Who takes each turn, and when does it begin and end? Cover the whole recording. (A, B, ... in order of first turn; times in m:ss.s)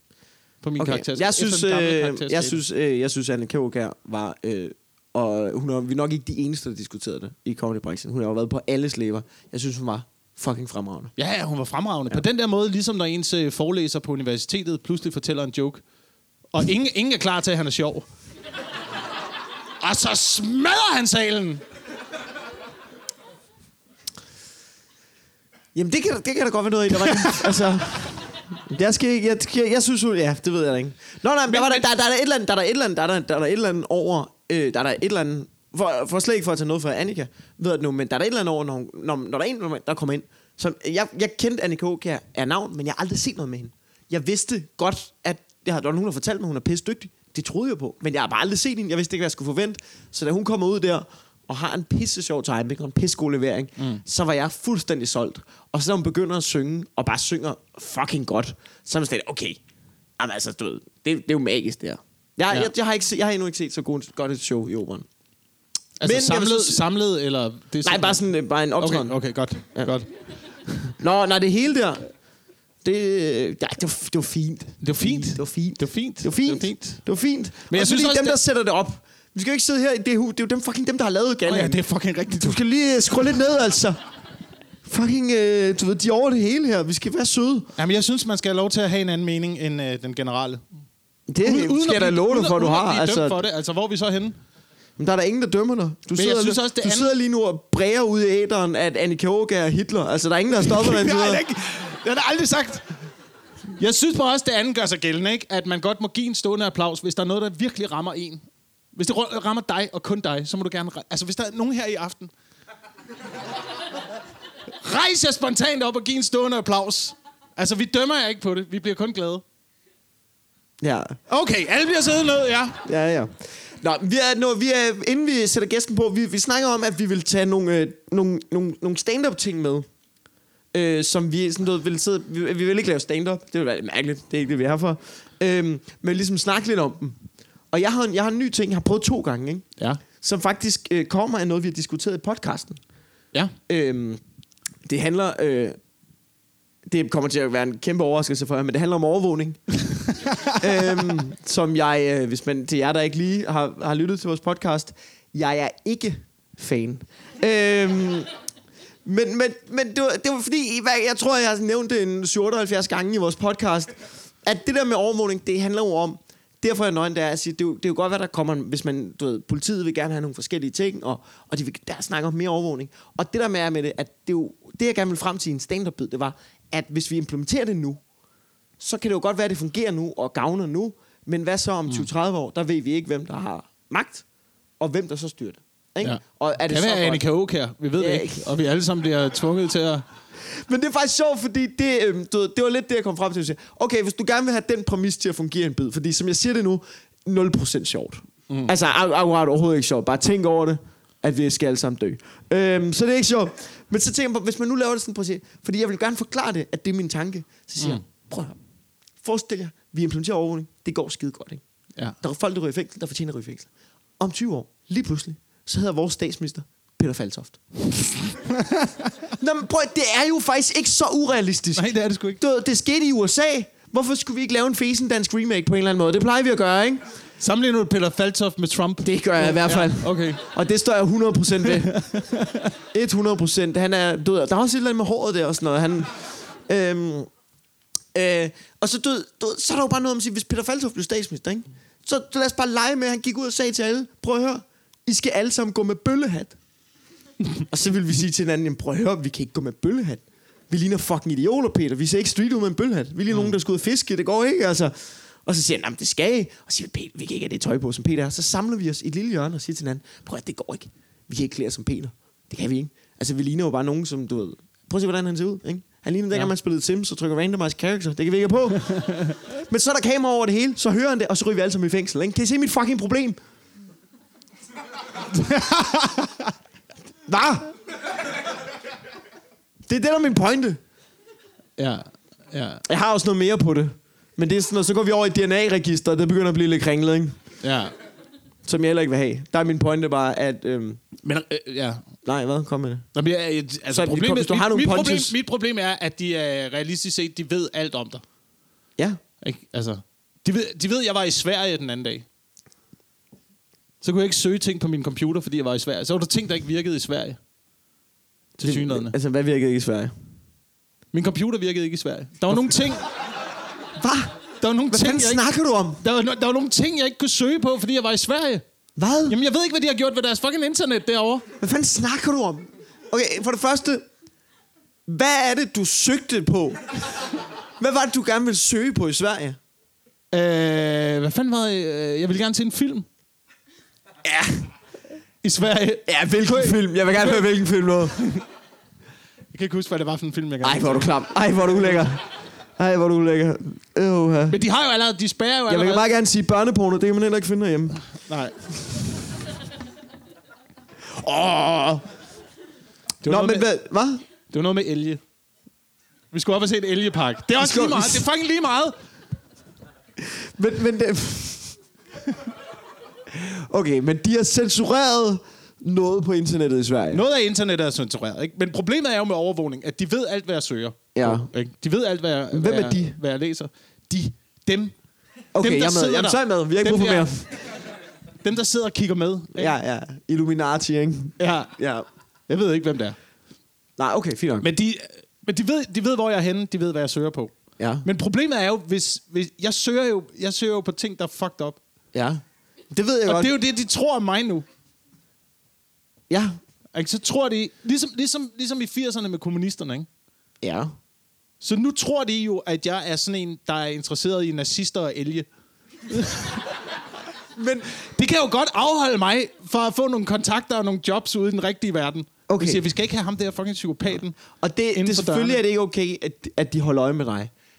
0:00.6-0:02.6 A
0:00.8-0:11.1 B
0:11.2-0:15.8 A
0:16.5-0:18.1 A
0:19.8-0:21.6 A
0:25.8-0:59.6 B
0:27.1-0:27.4 A
0:31.5-0:31.8 A
1:00.2-1:05.1 B
1:06.0-1:08.2 A
1:06.0-1:06.8 B
1:07.8-1:09.2 B
1:08.8-1:10.1 A
1:11.0-1:12.1 B
1:12.8-1:21.8 B
1:14.8-1:17.0 A
1:17.7-1:18.4 A
1:21.5-1:22.6 A
1:22.4-1:24.0 B
1:24.9-1:27.7 B
1:27.8-1:30.6 A
1:31.3-1:33.4 B
1:31.4-1:34.4 A
1:35.0-1:41.4 B
1:36.2-1:37.1 A
1:40.6-1:42.9 A
1:43.8-1:48.4 A
1:49.0-1:52.3 A
1:54.8-1:59.4 A
2:00.8-2:01.2 B
2:01.3-2:02.8 A
2:02.8-2:09.9 B
2:10.7-2:17.2 B
2:17.7-2:22.8 B
2:23.7-2:24.2 B
2:24.8-2:25.8 B
2:26.9-2:30.0 B
2:30.3-2:30.5 A
2:30.6-2:38.3 B
2:39.0-2:58.0 B
2:58.8-3:04.2 B
3:04.8-3:07.2 B
3:06.0-3:10.0 A
3:08.0-3:08.5 B
3:10.4-3:28.6 B
3:29.2-3:31.6 B
3:32.2-3:33.7 B
3:34.2-3:38.1 B
3:39.4-3:47.0 B
3:41.8-3:42.4 A
3:47.4-3:50.4 A
3:49.0-3:52.0 B
3:51.7-3:52.7 A
3:52.9-3:57.3 B
3:58.1-4:06.6 B
4:07.7-4:14.9 B
4:15.4-4:33.4 B
4:35.3-4:36.5 A
4:37.3-4:37.7 B
4:39.9-4:40.8 B
4:41.8-4:42.8 A
4:42.9-4:47.4 B
4:47.6-4:47.9 A
4:48.6-4:51.0 B
4:51.2-4:52.0 A
4:52.2-4:53.1 B
4:53.1-4:58.2 A
4:53.9-4:55.4 B
4:59.4-5:02.3 A
5:04.0-5:07.4 A
5:08.6-5:09.2 A
5:08.6-5:10.1 B
5:11.1-5:13.1 A
5:14.0-5:16.0 B
5:14.6-5:15.4 A
5:16.0-5:18.6 A
5:19.0-5:19.4 B
5:19.3-5:21.4 A
5:21.6-5:24.1 B
5:25.1-5:27.0 B
5:27.8-5:29.6 B
5:30.3-5:33.1 A
5:34.2-5:34.7 B
5:35.4-5:37.4 A
5:36.1-5:38.2 B
5:39.5-5:41.1 A
5:40.6-5:42.2 B
5:42.8-5:44.6 B
5:44.5-5:46.1 A
5:45.7-5:48.0 B
5:48.3-5:48.6 A
5:51.1-5:52.0 B
5:53.2-5:53.7 A
5:53.2-5:54.2 B
5:54.5-5:55.2 A
5:56.3-5:59.0 A
5:57.6-5:58.2 B
6:00.2-6:01.8 B
6:03.3-6:07.2 B
6:07.1-6:15.0 A
6:11.2-6:11.5 B
6:12.5-6:13.2 B
6:15.5-6:17.5 B
6:15.6-6:17.5 A
6:18.4-6:19.7 A
6:19.6-6:22.1 B
6:21.4-6:21.8 A
6:22.5-6:23.2 A
6:24.0-6:24.7 B
6:24.6-6:27.5 A
6:27.8-6:28.1 B
6:28.0-6:31.8 A
6:32.1-6:33.6 B
6:33.3-6:34.7 A
6:36.3-6:36.6 B
6:36.9-6:40.1 A
6:40.6-6:40.9 B
6:41.6-6:45.5 A
6:46.1-6:46.6 A
6:47.6-6:47.9 B
6:48.0-6:54.4 A
6:52.5-6:52.8 B
6:54.6-6:57.5 B
6:54.9-6:55.6 A